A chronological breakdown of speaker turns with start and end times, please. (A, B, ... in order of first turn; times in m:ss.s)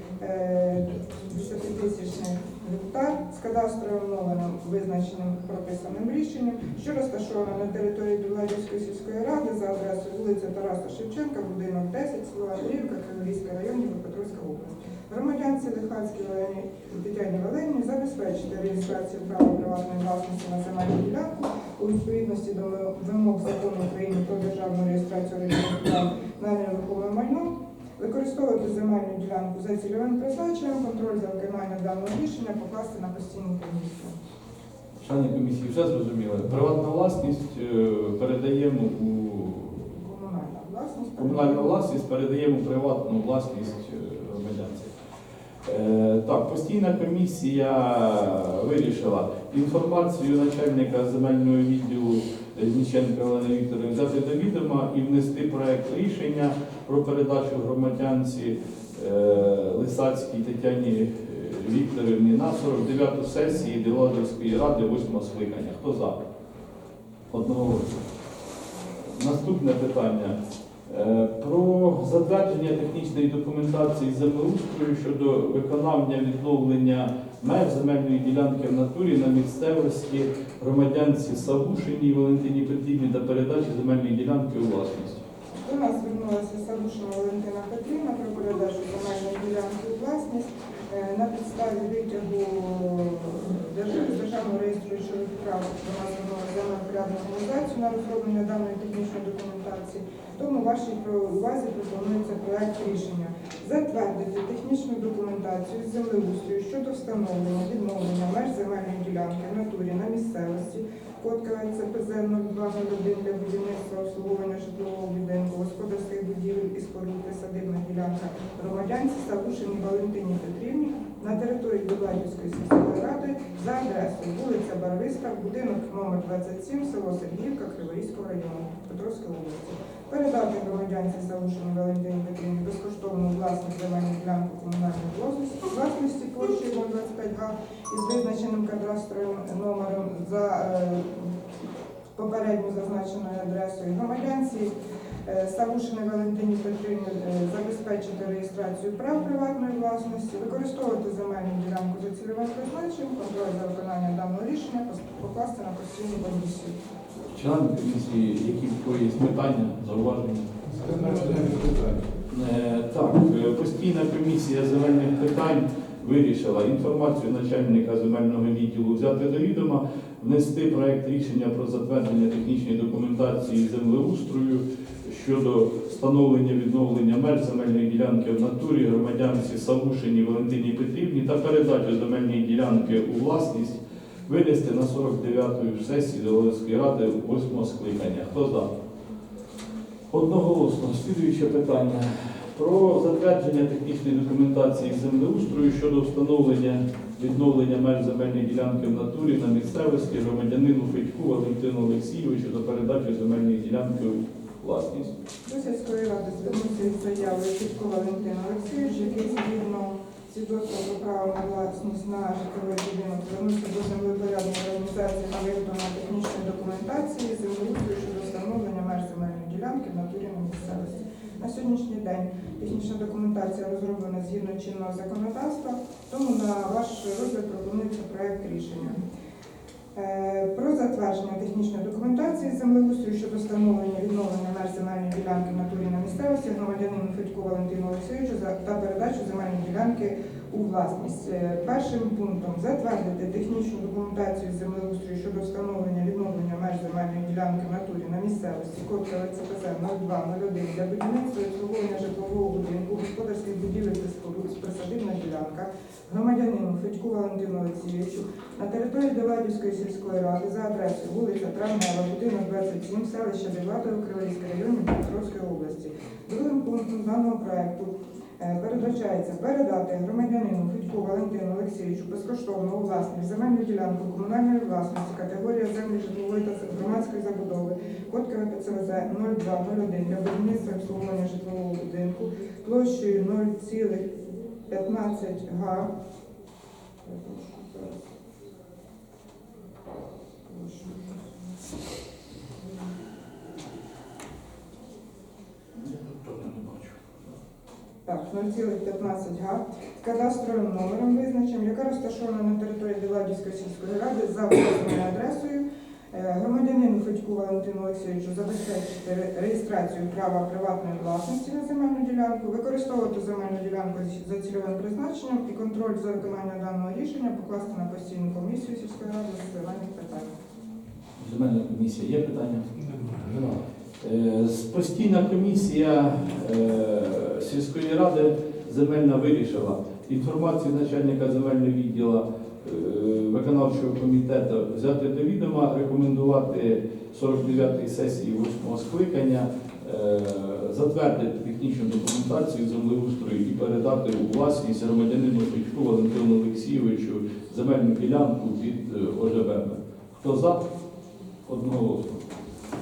0:00.2-0:34.2 A
0:35.0-0:39.9 B
0:39.9-0:41.7 A
0:41.2-0:44.9 B
0:45.6-1:06.2 B
1:07.3-1:08.0 B
1:09.0-1:25.2 B
1:25.5-2:21.3 A
2:22.2-2:24.7 A
2:25.2-2:36.8 A
2:37.3-2:40.5 B
2:40.6-2:42.1 C
2:42.3-3:08.7 B
3:10.1-3:25.1 B
3:25.4-3:49.0 A
3:49.9-4:45.9 A
4:47.0-4:48.0 A
4:50.4-4:51.2 A
4:55.8-4:56.9 B
4:58.0-5:20.3 A
5:21.2-5:22.7 B
5:22.8-5:23.6 C
5:24.0-5:50.7 B
5:51.4-5:52.2 B